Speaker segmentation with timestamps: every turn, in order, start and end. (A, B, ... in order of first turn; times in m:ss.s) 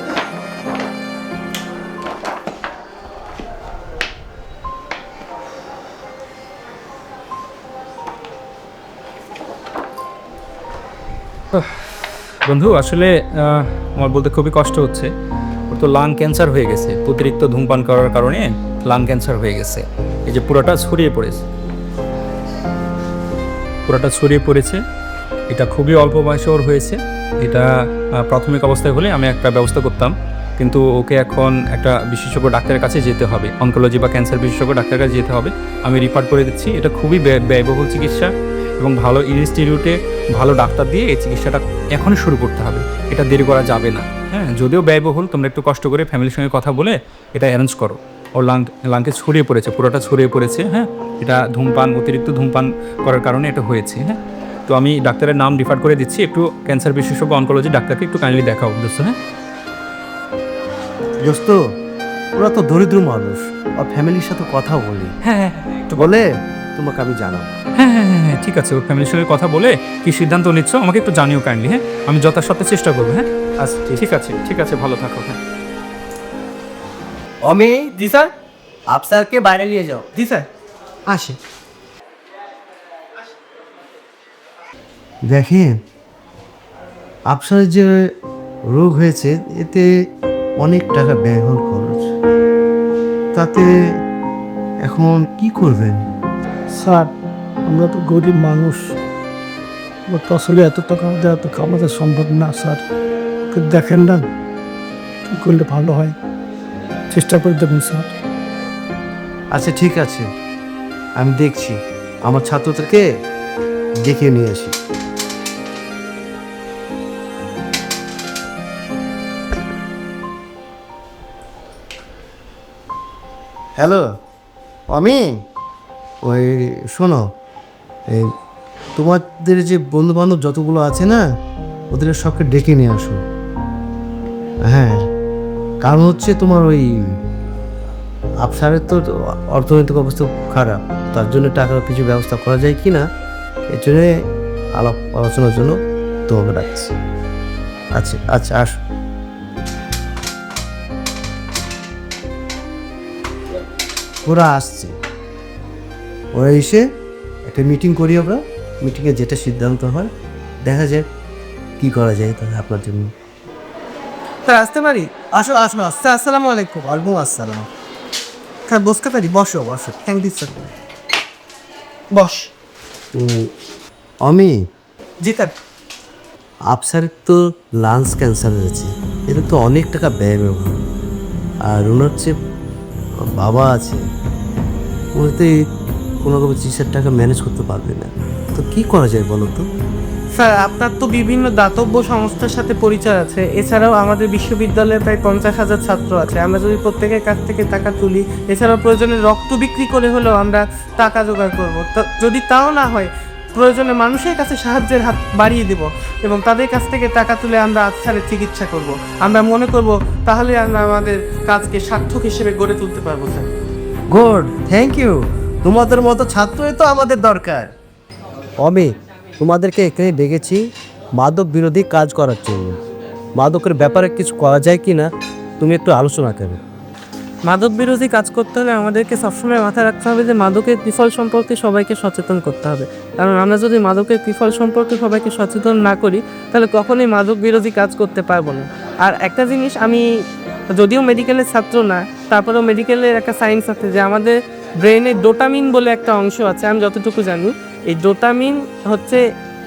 0:11.5-0:11.8 A
0:12.4-0:15.1 A
0:15.7-0:21.4 A
0:23.8-0:24.8 A
0:25.5-0:27.6 A
0:28.2-0:59.2 A
1:01.2-1:01.6 B
1:02.4-1:05.2 B
1:05.2-1:06.1 A
1:05.9-1:07.5 B
1:07.8-1:13.2 A
1:13.6-1:14.0 B
1:14.0-1:15.4 A
1:17.4-1:17.9 B
1:17.9-1:18.3 C
1:18.9-1:20.0 B
1:20.1-1:20.5 C
1:25.2-1:25.7 B
1:27.3-1:27.9 B
1:28.7-1:29.9 B
1:30.6-1:32.1 B
1:33.3-1:33.7 B
1:34.8-1:36.0 B
1:36.7-1:37.1 D
1:37.6-1:38.9 D
1:40.1-1:42.8 D
1:43.5-1:44.3 D
1:45.3-1:46.2 D
1:47.1-1:48.1 D
1:49.5-1:50.2 B
1:51.2-1:53.0 B
1:54.0-1:54.7 B
2:03.8-2:04.1 B
2:04.9-2:05.4 B
2:06.2-2:07.2 B
2:09.0-2:11.2 B
2:11.9-2:13.2 B
2:14.6-2:15.0 B
2:15.8-2:17.1 B
2:18.4-2:23.0 B
2:23.7-2:24.1 B
2:24.8-2:25.8 B
2:26.3-2:26.9 B
2:28.0-2:28.8 B
2:34.2-2:34.9 B
2:36.3-2:36.8 B
2:37.4-2:40.1 B
2:40.6-2:41.0 B
2:41.8-2:43.1 B
2:44.5-2:47.6 C
2:48.7-2:50.7 C
2:52.1-2:52.5 C
2:53.1-2:53.5 B
2:54.2-2:54.6 B
2:55.2-2:55.5 C
2:56.7-3:00.8 B
3:01.6-3:02.3 B
3:03.4-3:04.0 B
3:05.2-3:05.5 B
3:06.2-3:09.6 B
3:10.4-3:33.5 C
3:34.1-3:37.7 B
3:38.6-3:40.6 B
3:41.2-3:42.8 B
3:43.4-3:45.1 B
3:45.6-3:46.6 B
3:47.4-4:00.0 C
4:00.7-4:09.2 C